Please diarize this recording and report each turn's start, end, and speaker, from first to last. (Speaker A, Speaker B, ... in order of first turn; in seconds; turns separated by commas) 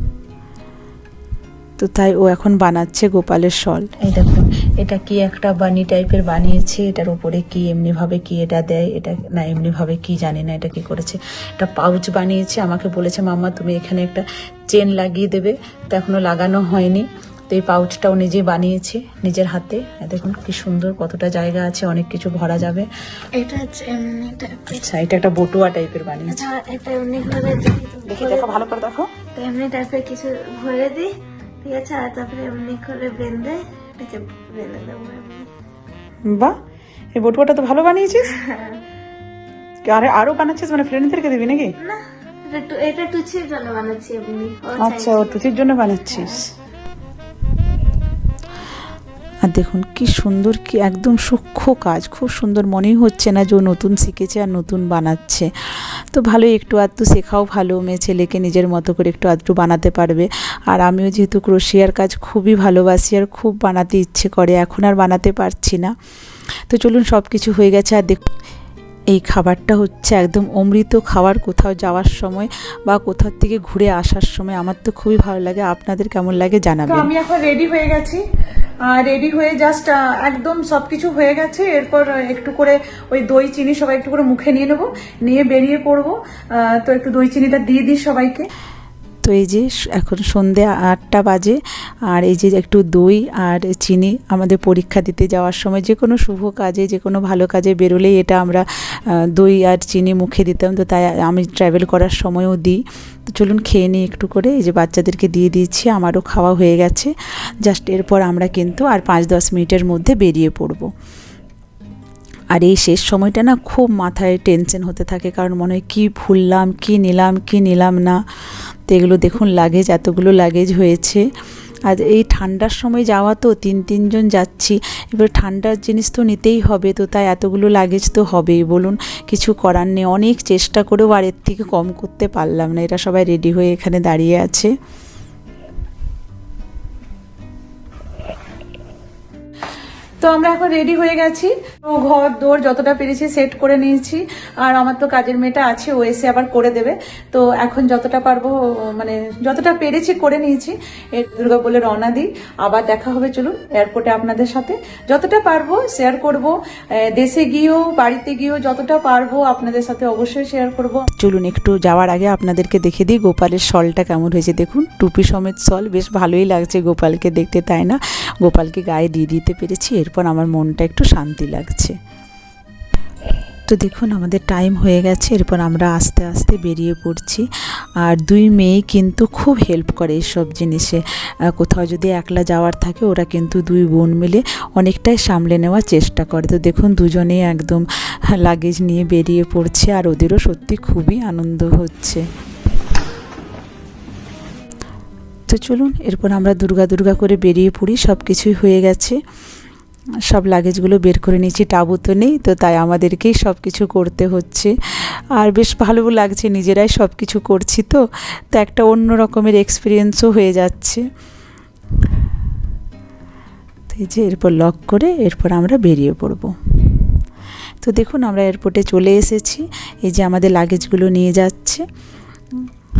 Speaker A: 1.8-22.9, Speaker B: 23.3-24.9, Speaker A: 24.7-26.4, Speaker B: 26.3-28.7, Speaker C: 28.1-29.1, Speaker B: 29.3-35.5, Speaker C: 36.2-36.5, Speaker C: 37.1-38.3, Speaker B: 38.2-38.8, Speaker C: 39.8-41.7, Speaker B: 41.8-46.4, Speaker C: 44.8-46.4, Speaker A: 49.4-65.9, Speaker A: 66.7-68.2, Speaker A: 69.1-77.1, Speaker C: 76.9-78.2, Speaker C: 78.9-88.5, Speaker A: 89.2-110.9, Speaker A: 112.5-118.2, Speaker A: 118.9-121.2, Speaker A: 121.9-134.7, Speaker C: 140.2-161.1, Speaker A: 161.1-171.9, Speaker A: 173.7-177.5, Speaker A: 178.0-181.0, Speaker A: 181.6-192.2, Speaker A: 195.5-199.2, Speaker A: 200.3-204.7, Speaker A: 205.3-208.0, Speaker A: 208.5-211.0, Speaker A: 213.9-217.0, Speaker A: 217.8-221.8